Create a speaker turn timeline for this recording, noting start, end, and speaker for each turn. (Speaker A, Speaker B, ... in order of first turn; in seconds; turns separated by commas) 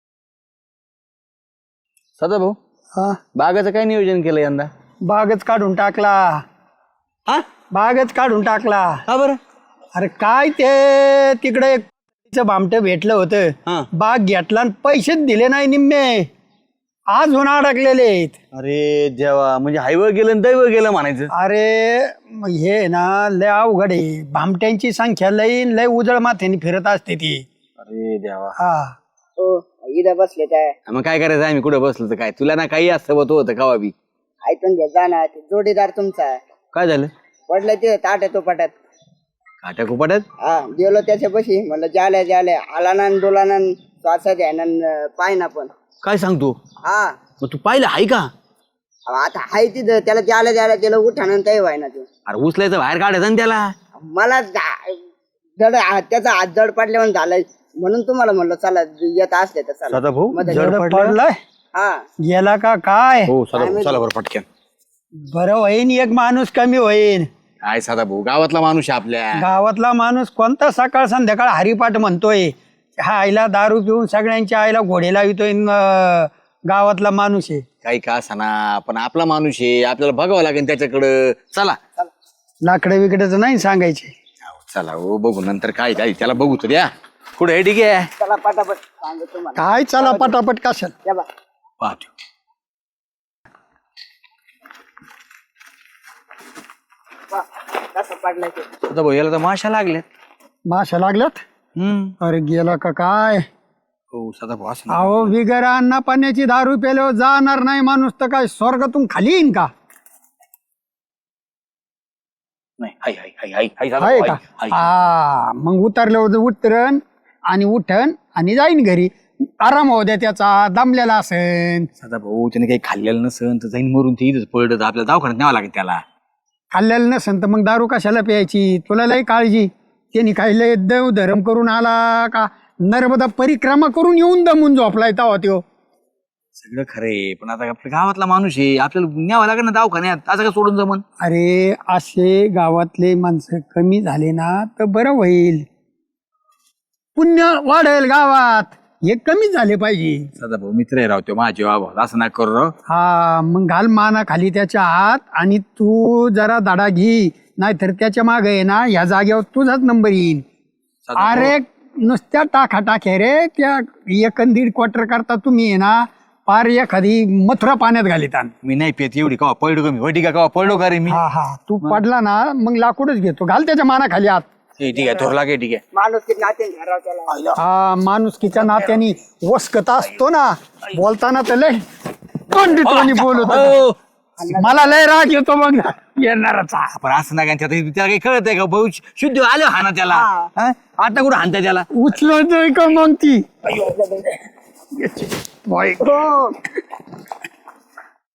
Speaker A: 2.2-2.6, Speaker B: 3.0-3.2, Speaker A: 3.4-4.7, Speaker B: 5.1-6.4, Speaker B: 7.7-9.0, Speaker A: 9.1-9.4, Speaker B: 10.0-16.3, Speaker B: 17.1-18.4, Speaker A: 18.5-21.3, Speaker B: 21.3-27.4, Speaker A: 27.8-28.6, Speaker B: 28.6-28.9, Speaker C: 29.4-30.8, Speaker A: 30.9-34.0, Speaker C: 34.4-36.4, Speaker A: 36.7-37.1, Speaker C: 37.5-38.7, Speaker A: 39.6-40.3, Speaker C: 40.4-45.7, Speaker A: 46.0-46.6, Speaker C: 46.9-47.2, Speaker A: 47.4-48.3, Speaker C: 49.1-52.1, Speaker A: 52.3-53.7, Speaker C: 54.0-55.0, Speaker C: 55.6-60.7, Speaker A: 59.9-61.2, Speaker B: 60.5-61.4, Speaker C: 61.7-62.0, Speaker B: 62.2-63.3, Speaker A: 63.3-64.5, Speaker C: 63.5-64.0, Speaker B: 65.3-67.3, Speaker A: 67.6-69.4, Speaker B: 69.3-77.7, Speaker A: 77.8-81.8, Speaker B: 82.7-84.1, Speaker A: 84.5-88.1, Speaker C: 88.2-90.3, Speaker B: 89.6-91.0, Speaker A: 91.8-92.1, Speaker C: 97.3-98.7, Speaker A: 98.9-100.0, Speaker B: 100.7-101.4, Speaker A: 101.8-102.1, Speaker B: 102.2-103.5, Speaker A: 104.1-105.3, Speaker B: 104.9-109.7, Speaker A: 112.8-114.9, Speaker B: 114.0-121.9, Speaker A: 122.0-126.0, Speaker B: 126.7-135.6, Speaker A: 136.6-141.0, Speaker B: 141.2-145.7, Speaker B: 147.2-150.3, Speaker A: 150.4-152.7, Speaker B: 152.9-160.4, Speaker A: 161.1-161.5, Speaker B: 161.2-168.5, Speaker A: 168.6-171.2, Speaker B: 171.1-174.5, Speaker A: 174.8-175.8, Speaker C: 174.9-175.3, Speaker C: 175.9-177.5, Speaker A: 177.3-177.6, Speaker B: 177.6-181.8, Speaker B: 182.5-183.8, Speaker A: 182.8-184.0, Speaker C: 184.4-184.9, Speaker B: 184.5-186.9, Speaker A: 186.9-191.9, Speaker C: 190.1-190.5, Speaker B: 191.9-193.7, Speaker C: 193.8-194.3, Speaker B: 195.2-196.3, Speaker C: 196.0-196.5